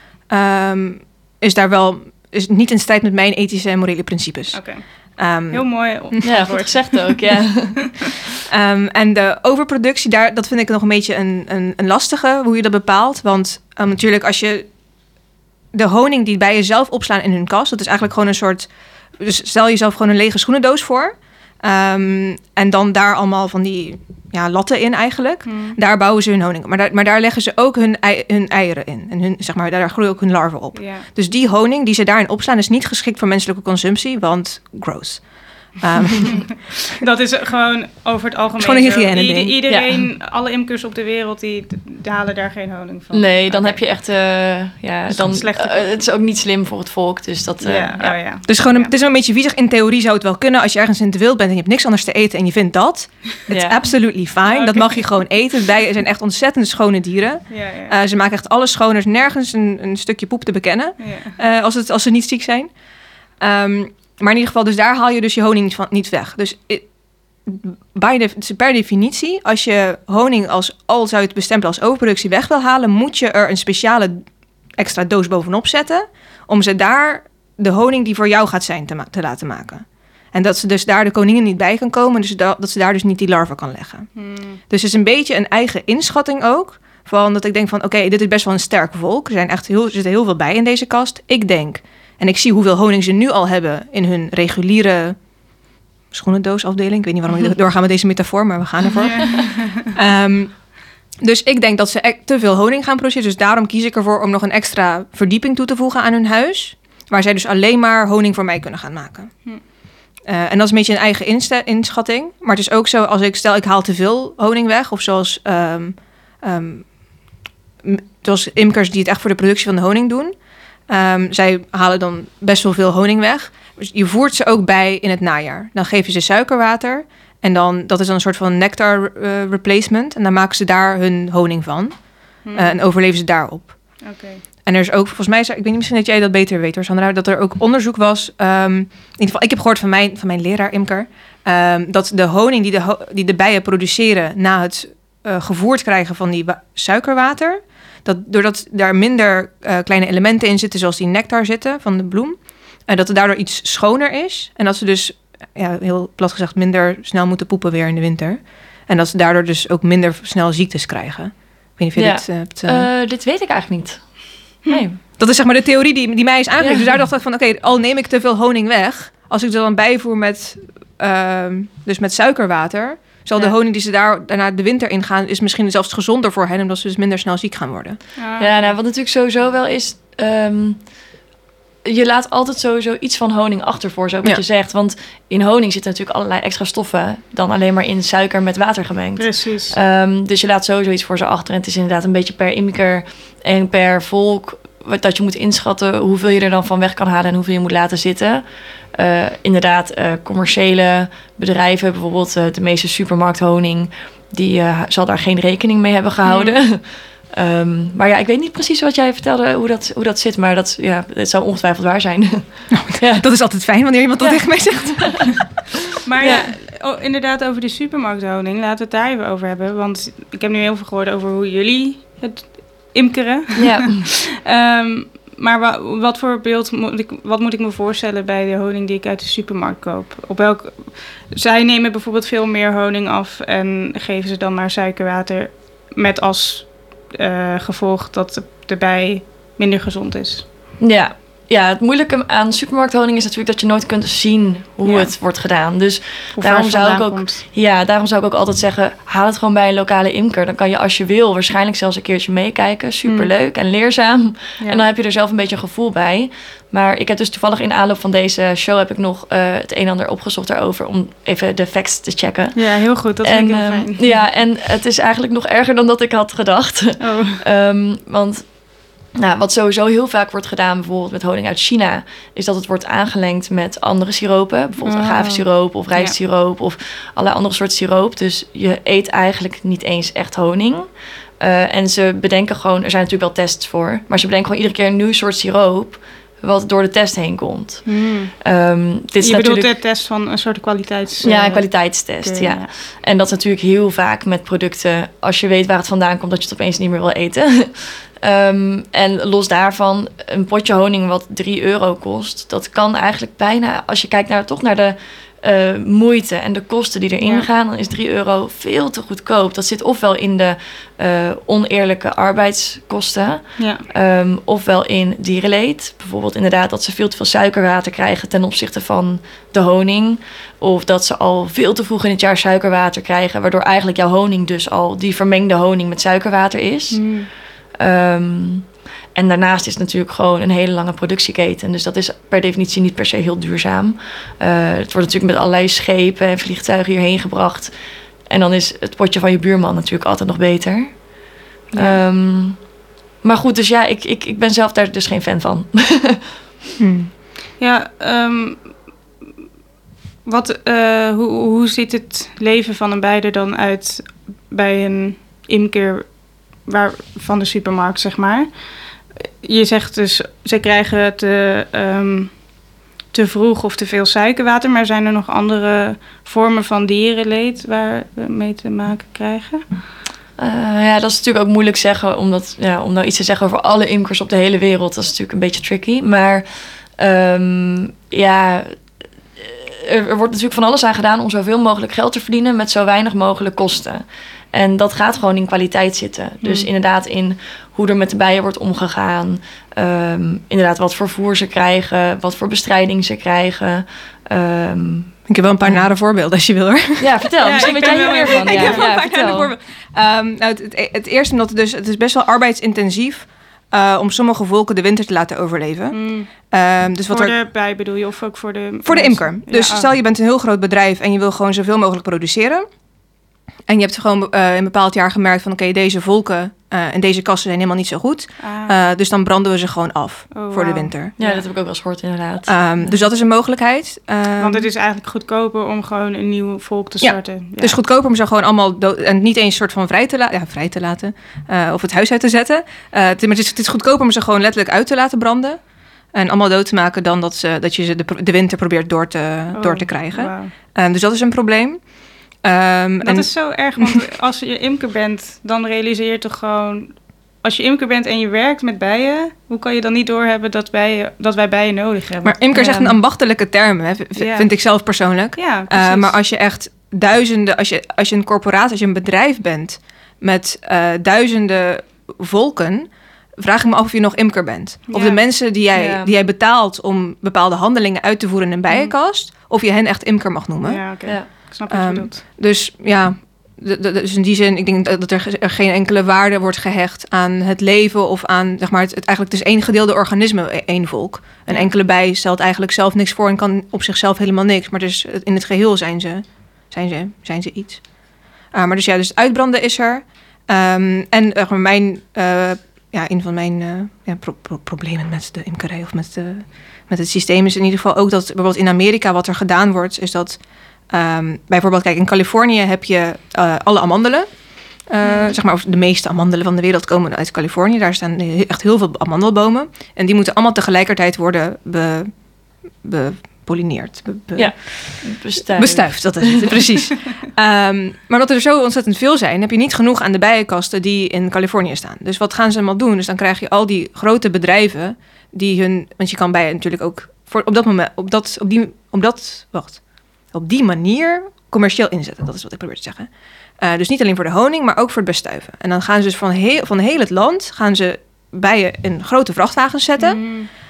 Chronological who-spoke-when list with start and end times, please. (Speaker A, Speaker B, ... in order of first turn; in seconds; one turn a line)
Speaker A: 0.3-4.6
Speaker B: 4.5-4.9
Speaker A: 5.2-6.2
Speaker B: 5.5-7.2
Speaker C: 6.2-8.0
Speaker A: 8.5-14.7
Speaker A: 15.7-36.9
Speaker B: 25.5-25.8
Speaker B: 30.8-31.1
Speaker B: 36.3-43.8
Speaker A: 38.6-39.5
Speaker C: 39.7-40.0
Speaker C: 43.1-48.2
Speaker B: 45.1-45.9
Speaker B: 47.6-48.9
Speaker A: 48.5-62.7
Speaker C: 53.5-53.8
Speaker B: 54.5-55.1
Speaker B: 57.5-58.0
Speaker B: 61.0-61.4
Speaker A: 63.4-66.9
Speaker A: 67.4-74.2
Speaker A: 74.8-84.1
Speaker B: 84.2-84.6
Speaker A: 84.7-95.2
Speaker A: 96.1-100.7
Speaker B: 99.0-99.9
Speaker A: 101.2-109.4
Speaker A: 110.2-117.0
Speaker A: 117.8-120.3
Speaker A: 120.9-134.1
Speaker B: 132.4-132.8
Speaker B: 134.0-134.4
Speaker A: 134.6-162.9
Speaker C: 162.0-165.0
Speaker A: 165.0-178.0
Speaker C: 166.6-166.9
Speaker B: 178.2-178.7
Speaker C: 178.4-180.8
Speaker C: 181.8-213.3
Speaker B: 189.2-189.8
Speaker A: 212.7-215.5
Speaker C: 214.2-214.5
Speaker C: 215.0-215.2
Speaker B: 216.1-240.5
Speaker C: 216.2-216.5
Speaker C: 223.6-224.1
Speaker C: 240.8-262.6
Speaker B: 244.8-245.1
Speaker B: 246.4-247.4
Speaker B: 253.1-253.3
Speaker B: 262.6-264.1
Speaker C: 263.2-268.6
Speaker B: 267.0-267.4
Speaker C: 269.1-280.9
Speaker B: 274.8-276.1
Speaker C: 281.4-287.9
Speaker B: 287.9-288.3
Speaker C: 288.4-289.7
Speaker B: 289.2-292.7
Speaker C: 291.2-327.1
Speaker B: 307.2-307.5
Speaker B: 326.9-327.3
Speaker C: 327.8-337.7
Speaker C: 338.3-341.0
Speaker C: 341.7-342.6
Speaker B: 341.7-342.0
Speaker C: 343.2-346.3
Speaker A: 346.8-347.1
Speaker B: 347.6-348.7
Speaker B: 350.2-358.6
Speaker B: 359.2-362.5
Speaker B: 363.1-369.6
Speaker C: 370.4-395.9
Speaker B: 386.4-386.7
Speaker A: 395.3-407.4
Speaker C: 397.0-399.5
Speaker B: 397.4-398.9
Speaker B: 405.9-406.3
Speaker B: 407.1-409.9
Speaker A: 408.9-412.7
Speaker A: 413.7-421.1
Speaker B: 418.4-418.7
Speaker B: 420.3-421.4
Speaker C: 421.2-423.0
Speaker A: 422.5-424.7
Speaker B: 424.4-427.8
Speaker A: 427.0-435.6
Speaker A: 436.1-443.9
Speaker B: 439.5-440.5
Speaker B: 443.0-452.4
Speaker A: 452.2-470.8
Speaker C: 452.6-452.9
Speaker B: 454.2-454.5
Speaker B: 455.4-456.1
Speaker B: 464.9-465.2
Speaker C: 465.7-466.1
Speaker B: 470.6-472.2
Speaker A: 471.7-487.9
Speaker A: 488.5-512.2
Speaker B: 505.0-505.3
Speaker A: 512.8-540.4
Speaker C: 514.4-516.8
Speaker B: 540.0-540.5